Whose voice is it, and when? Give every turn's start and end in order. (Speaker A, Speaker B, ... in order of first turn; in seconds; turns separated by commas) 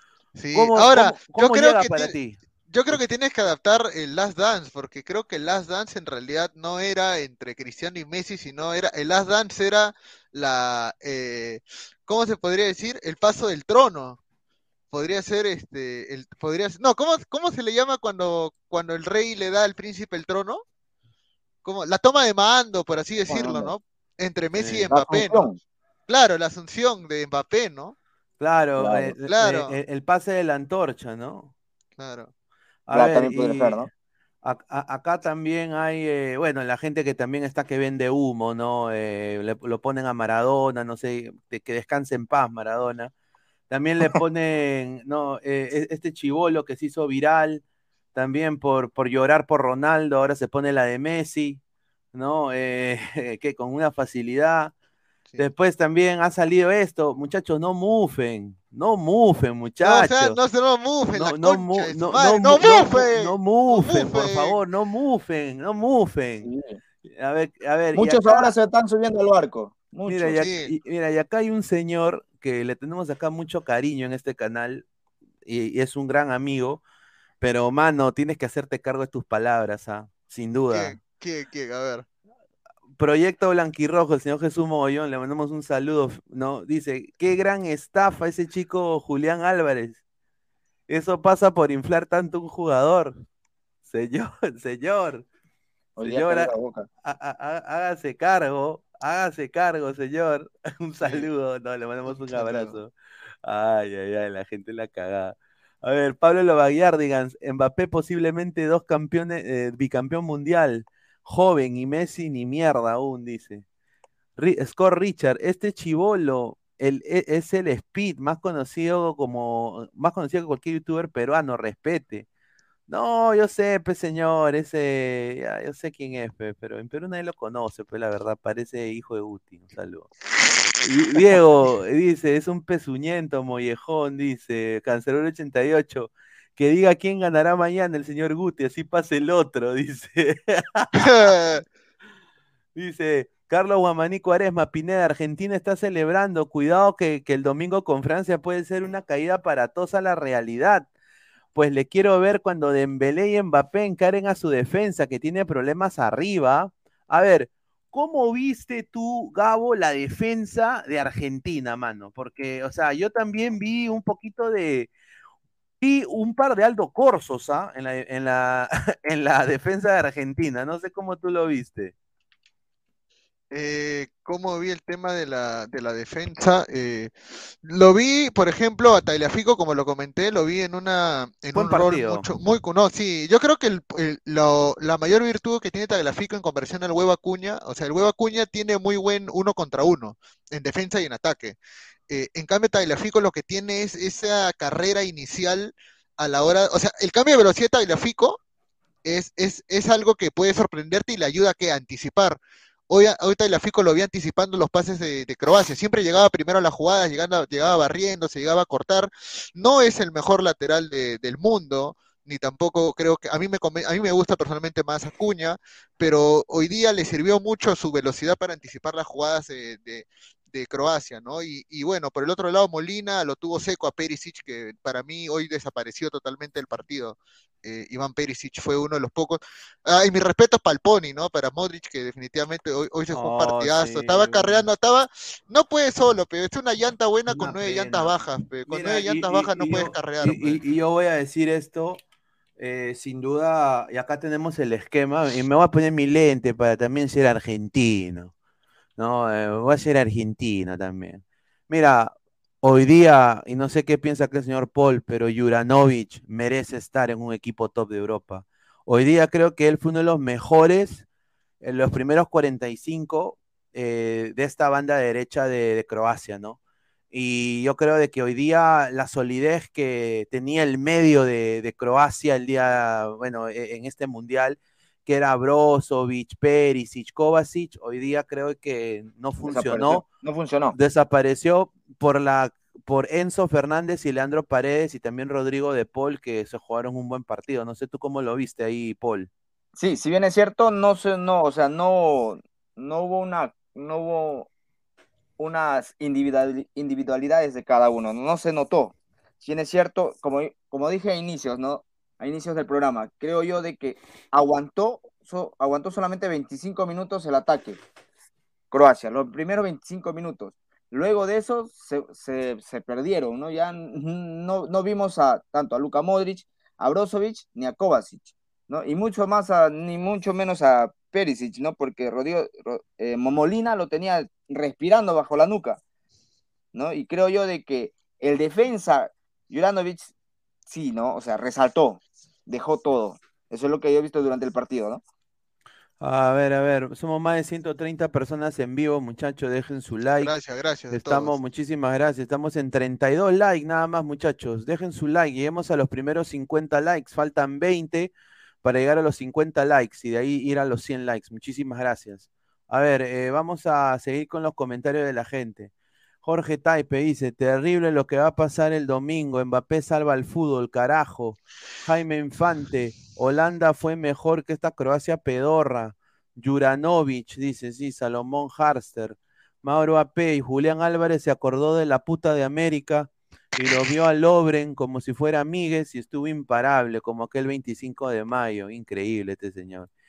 Speaker A: 0.4-2.1, Speaker B: 0.5-2.4, Speaker A: 2.7-14.2, Speaker A: 14.9-20.6, Speaker A: 21.6-25.5, Speaker C: 23.3-23.7, Speaker B: 24.6-24.9, Speaker C: 24.9-25.6, Speaker A: 26.1-27.9, Speaker B: 28.4-31.5, Speaker C: 28.8-29.1, Speaker A: 29.3-29.8, Speaker A: 32.0-32.3, Speaker B: 32.9-33.9, Speaker C: 32.9-33.9, Speaker B: 34.4-43.1, Speaker B: 43.7-47.6, Speaker B: 48.1-51.6, Speaker B: 52.1-54.7, Speaker B: 55.4-60.4, Speaker A: 59.8-64.6, Speaker B: 61.1-66.5, Speaker C: 66.4-66.8, Speaker B: 67.1-68.5, Speaker C: 68.0-70.4, Speaker B: 70.1-74.9, Speaker A: 70.4-70.7, Speaker B: 75.5-76.8, Speaker B: 77.4-81.0, Speaker A: 80.7-82.0, Speaker B: 83.0-90.0, Speaker B: 90.9-93.2, Speaker B: 93.8-95.2, Speaker C: 96.0-96.9, Speaker B: 96.0-96.5, Speaker B: 97.0-102.9, Speaker A: 102.1-102.8, Speaker B: 103.4-113.6, Speaker B: 114.4-122.3, Speaker B: 122.9-130.1, Speaker B: 130.8-141.3, Speaker A: 141.0-141.6, Speaker B: 142.8-150.9, Speaker B: 151.5-164.9, Speaker B: 165.8-171.9, Speaker A: 173.5-177.1, Speaker A: 177.6-191.6, Speaker B: 181.5-182.3, Speaker A: 192.1-198.4, Speaker A: 199.1-240.6, Speaker B: 233.1-234.7, Speaker B: 237.3-242.0, Speaker B: 242.6-248.3, Speaker B: 249.0-261.1, Speaker B: 261.6-266.6, Speaker B: 267.1-280.1, Speaker C: 279.4-280.8, Speaker B: 280.7-289.3, Speaker C: 289.8-294.5, Speaker C: 295.4-307.8, Speaker C: 308.7-325.8, Speaker C: 326.7-330.1, Speaker C: 330.7-335.0, Speaker B: 336.0-340.3, Speaker A: 340.2-341.3, Speaker B: 340.9-348.1, Speaker B: 348.6-355.7, Speaker B: 356.2-379.9